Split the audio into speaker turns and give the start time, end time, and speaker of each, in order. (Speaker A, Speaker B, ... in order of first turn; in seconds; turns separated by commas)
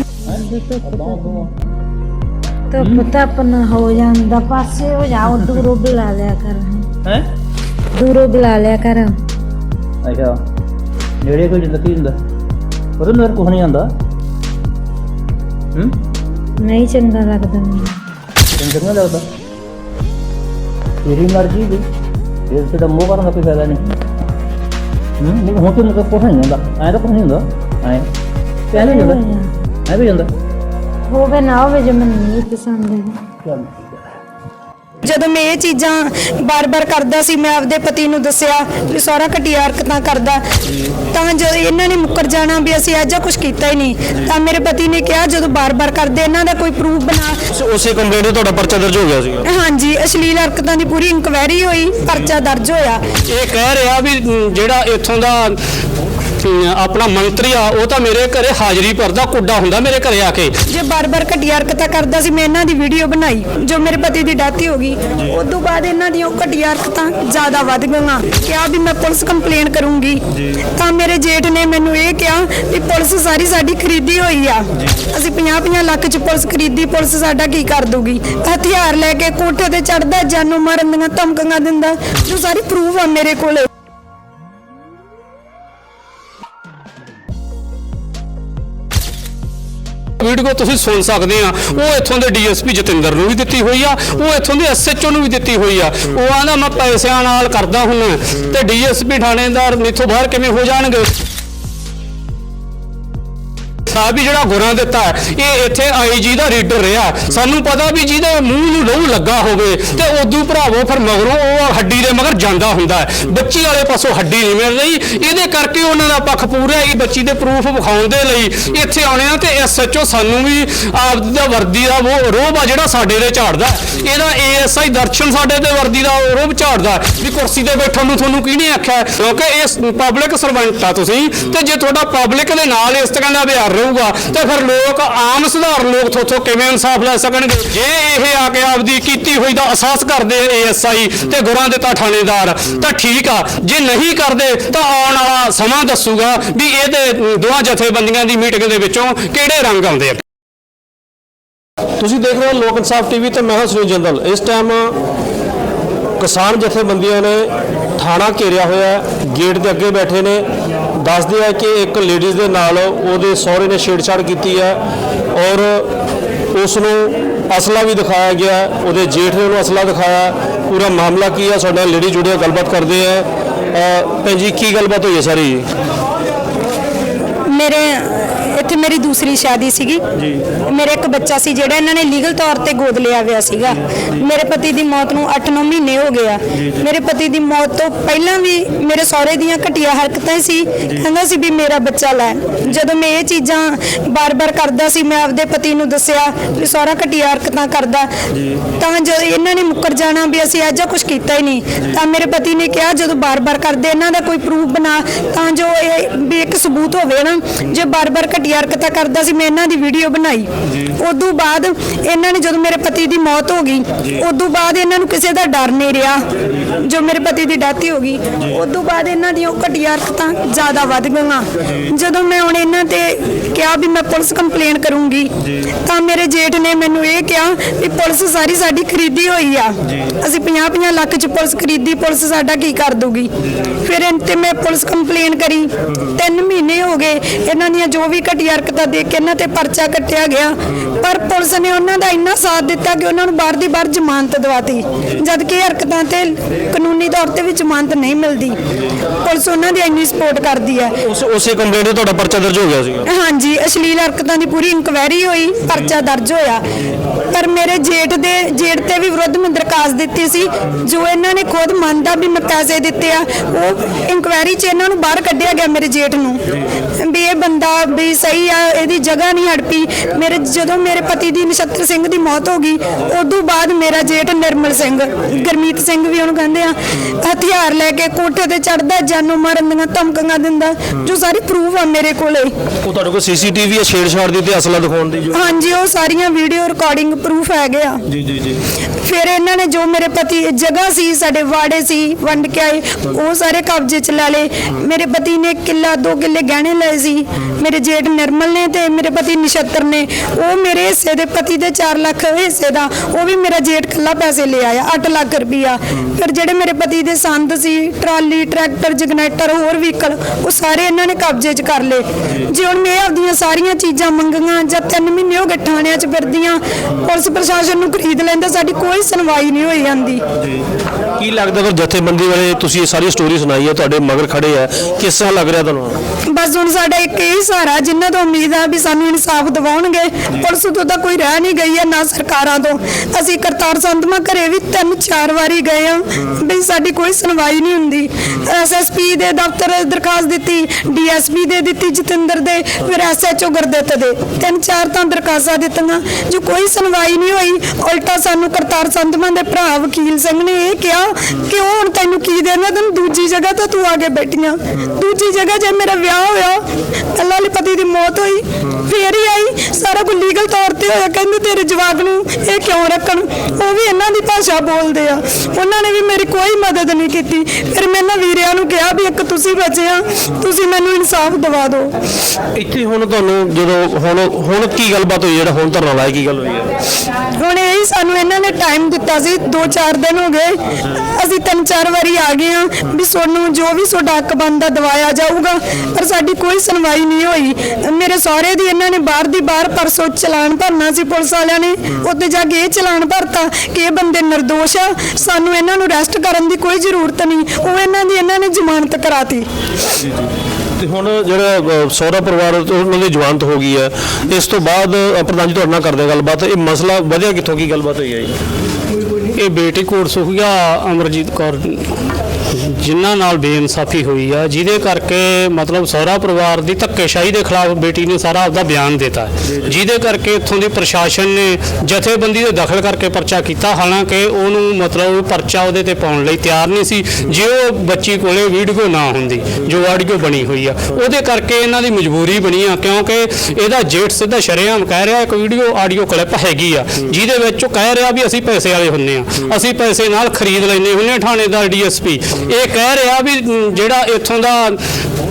Speaker A: 0.3-1.5, Speaker B: 0.3-1.5, Speaker B: 2.7-6.9, Speaker A: 2.8-3.1, Speaker A: 5.3-5.6, Speaker B: 8.0-9.2, Speaker A: 10.0-10.4, Speaker A: 11.2-12.2, Speaker A: 13.0-13.9, Speaker A: 15.7-16.0, Speaker B: 16.6-18.0, Speaker A: 18.6-19.3, Speaker A: 21.0-21.9, Speaker A: 22.5-23.9, Speaker A: 25.2-28.1, Speaker A: 28.7-29.3, Speaker B: 28.7-29.5, Speaker A: 29.9-30.3, Speaker B: 31.1-33.2, Speaker A: 33.5-33.9, Speaker C: 35.0-40.4, Speaker C: 41.0-47.4, Speaker D: 47.5-49.4, Speaker C: 49.5-53.1, Speaker E: 53.3-55.6, Speaker E: 56.4-60.6, Speaker C: 60.7-83.7, Speaker E: 90.2-101.1, Speaker E: 103.9-150.2, Speaker D: 152.0-154.9, Speaker D: 156.2-160.4, Speaker D: 161.0-164.8, Speaker D: 165.3-165.9, Speaker D: 166.5-175.7, Speaker C: 177.5-180.0, Speaker C: 180.6-198.1, Speaker C: 198.7-225.3, Speaker C: 225.8-248.6, Speaker C: 249.2-250.9, Speaker D: 251.0-253.0, Speaker C: 253.1-256.6, Speaker C: 257.3-282.5, Speaker D: 282.8-285.3, Speaker C: 285.3-288.0, Speaker D: 288.1-288.6, Speaker C: 288.9-320.2, Speaker D: 321.2-326.0, Speaker C: 326.3-371.9, Speaker D: 372.5-376.7, Speaker C: 377.3-399.5, Speaker D: 400.8-408.3, Speaker E: 409.3-444.8